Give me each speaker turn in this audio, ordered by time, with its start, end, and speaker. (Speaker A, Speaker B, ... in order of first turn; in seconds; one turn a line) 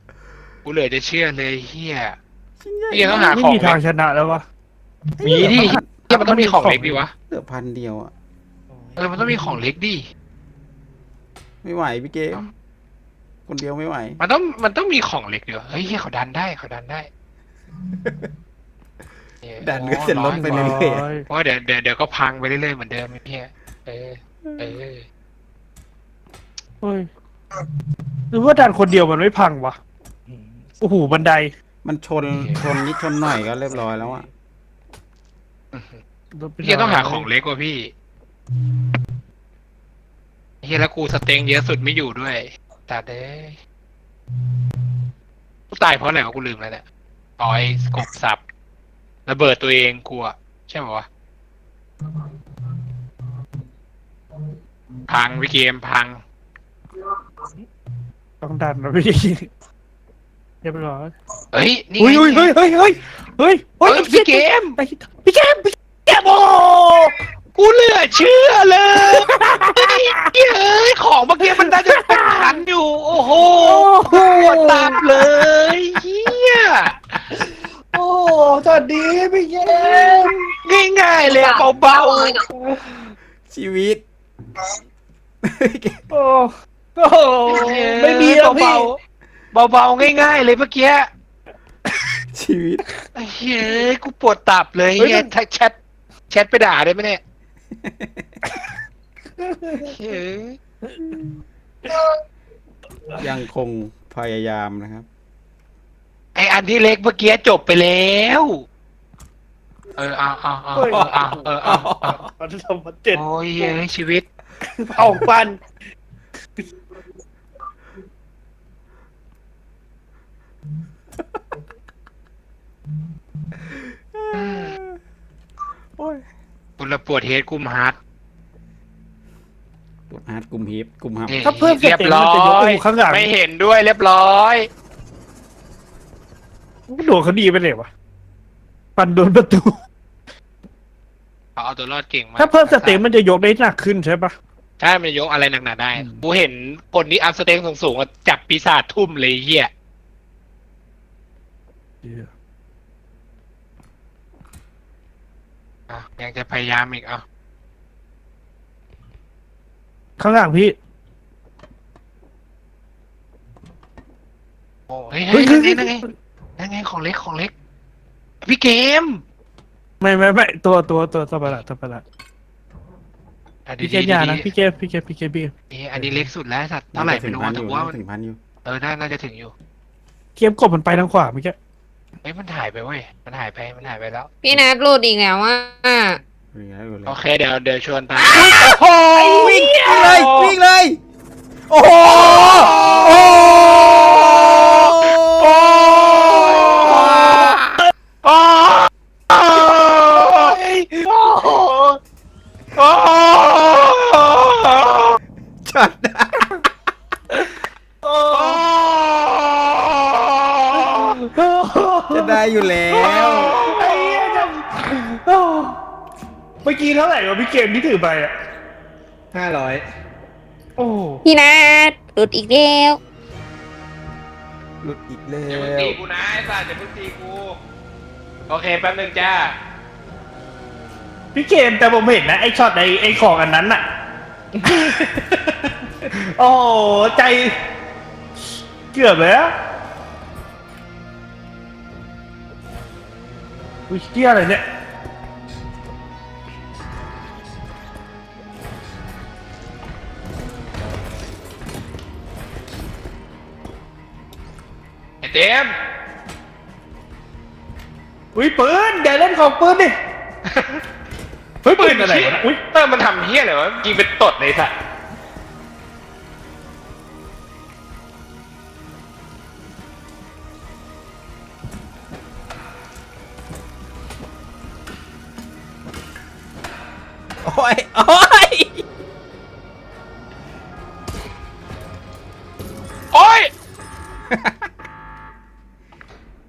Speaker A: 0.6-2.2
Speaker B: 2.6-3.4
Speaker A: 2.9-3.8
Speaker C: 3.1-4.4
Speaker B: 5.2-6.1
Speaker A: 5.2-7.1
Speaker C: 5.3-7.0
Speaker B: 7.3-8.1
Speaker A: 9.0-10.1
Speaker B: 11.6-12.5
Speaker B: 13.5-14.2
Speaker A: 14.2-17.1
Speaker B: 17.9-18.3
Speaker A: 19.4-25.0
Speaker B: 19.6-21.1
Speaker C: 20.4-21.2
Speaker C: 26.8-27.6
Speaker C: 28.3-29.8
Speaker D: 30.3-30.8
Speaker C: 30.8-31.5
Speaker B: 31.8-34.2
Speaker A: 32.3-32.7
Speaker D: 33.7-34.3
Speaker A: 35.7-36.0
Speaker C: 36.3-37.3
Speaker A: 36.6-37.9
Speaker A: 40.6-43.6
Speaker A: 45.7-46.8
Speaker A: 47.4-48.4
Speaker A: 49.2-51.0
Speaker A: 55.1-56.2
Speaker C: 58.4-59.5
Speaker C: 60.6-61.1
Speaker A: 61.5-62.5
Speaker C: 62.0-67.1
Speaker A: 63.8-64.8
Speaker A: 67.5-77.2
Speaker C: 69.1-70.3
Speaker C: 71.4-72.6
Speaker C: 73.3-75.5
Speaker C: 77.9-80.4
Speaker A: 79.7-82.4
Speaker E: 81.2-82.5
Speaker C: 82.5-83.1
Speaker B: 83.5-84.0
Speaker B: 85.4-86.0
Speaker C: 86.1-89.0
Speaker A: 87.4-88.9
Speaker A: 89.5-91.1
Speaker B: 92.3-93.0
Speaker A: 93.2-95.7
Speaker C: 95.0-95.3
Speaker A: 96.3-97.2
Speaker B: 97.7-98.3
Speaker C: 99.4-99.9
Speaker A: 99.8-100.6
Speaker B: 103.2-105.1
Speaker A: 106.3-108.6
Speaker A: 109.9-112.2
Speaker C: 110.8-111.5
Speaker B: 111.6-112.2
Speaker C: 112.0-113.7
Speaker A: 113.1-114.2
Speaker C: 114.8-115.7
Speaker B: 115.0-115.2
Speaker B: 123.7-125.0
Speaker A: 124.3-124.7
Speaker B: 126.0-126.2
Speaker A: 126.8-128.0
Speaker B: 130.1-131.4
Speaker A: 131.3-134.7
Speaker C: 131.4-133.3
Speaker C: 136.9-137.9
Speaker C: 139.0-139.8
Speaker A: 141.6-143.0
Speaker C: 142.4-144.3
Speaker A: 144.8-149.7
Speaker C: 145.9-146.2
Speaker C: 152.0-152.3
Speaker A: 155.9-157.2
Speaker C: 160.2-160.7
Speaker A: 164.9-166.0
Speaker C: 165.3-166.1
Speaker A: 166.6-167.5
Speaker A: 168.4-169.2
Speaker C: 170.0-172.0
Speaker A: 173.7-174.5
Speaker C: 173.8-175.5
Speaker A: 175.7-178.0
Speaker B: 176.9-178.4
Speaker A: 178.6-179.5
Speaker C: 180.3-181.5
Speaker A: 182.2-184.3
Speaker E: 184.4-186.2
Speaker B: 186.5-187.2
Speaker A: 187.1-190.5
Speaker B: 188.2-191.0
Speaker B: 191.7-197.8
Speaker A: 192.1-193.4
Speaker A: 194.1-197.6
Speaker A: 198.2-202.0
Speaker A: 202.8-205.2
Speaker B: 205.6-206.6
Speaker C: 208.0-208.7
Speaker A: 208.3-211.2
Speaker C: 210.8-212.4
Speaker B: 212.1-213.6
Speaker A: 213.0-214.5
Speaker C: 213.0-215.8
Speaker C: 216.6-218.3
Speaker D: 219.3-219.8
Speaker C: 220.8-221.2
Speaker E: 221.2-223.0
Speaker B: 224.8-226.0
Speaker A: 225.5-227.6
Speaker A: 228.5-229.5
Speaker C: 231.3-233.8
Speaker D: 234.5-235.3
Speaker C: 234.6-235.6
Speaker C: 236.1-237.6
Speaker C: 238.9-239.5
Speaker C: 243.9-244.6
Speaker A: 255.2-255.7
Speaker C: 258.3-259.9
Speaker A: 260.5-260.8
Speaker C: 261.6-262.6
Speaker A: 261.7-264.7
Speaker B: 277.4-278.9
Speaker A: 283.1-283.5
Speaker B: 284.3-284.7